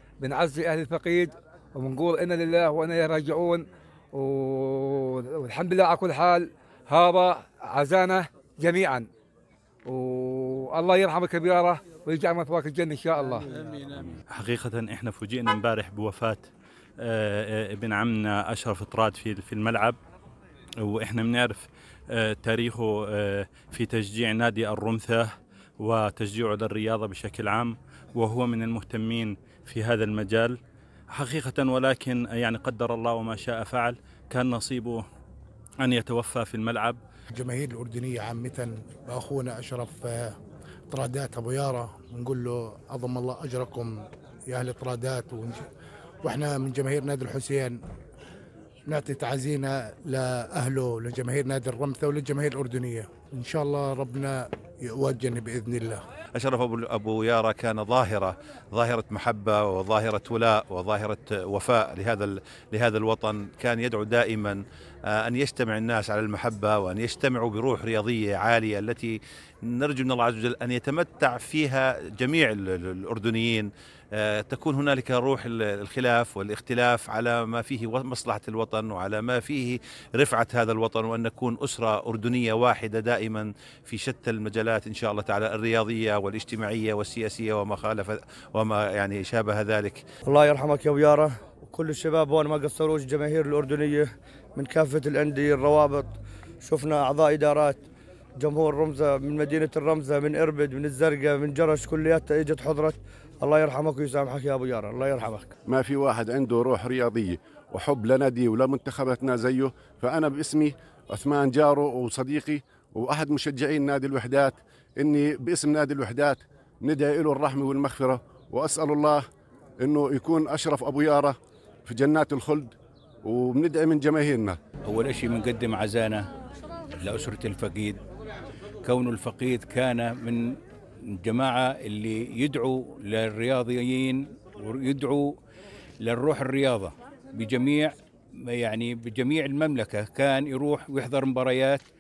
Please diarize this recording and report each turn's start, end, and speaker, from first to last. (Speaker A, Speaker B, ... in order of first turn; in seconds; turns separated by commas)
Speaker A: 0.2-9.1, Speaker A: 9.8-13.5, Speaker B: 14.3-16.5, Speaker B: 17.0-19.9, Speaker B: 20.8-25.3, Speaker B: 25.8-30.6, Speaker B: 31.1-35.0, Speaker B: 35.8-37.0, Speaker C: 37.4-40.3, Speaker C: 40.9-44.0, Speaker C: 44.5-45.6, Speaker C: 46.2-47.8, Speaker C: 48.9-56.0, Speaker D: 56.4-69.2, Speaker D: 69.7-90.0, Speaker E: 90.2-97.8, Speaker E: 98.4-105.5, Speaker F: 105.7-119.2, Speaker F: 119.8-122.7, Speaker F: 123.2-124.6, Speaker G: 124.8-126.3, Speaker G: 127.0-128.0, Speaker G: 128.8-135.4, Speaker G: 136.0-141.8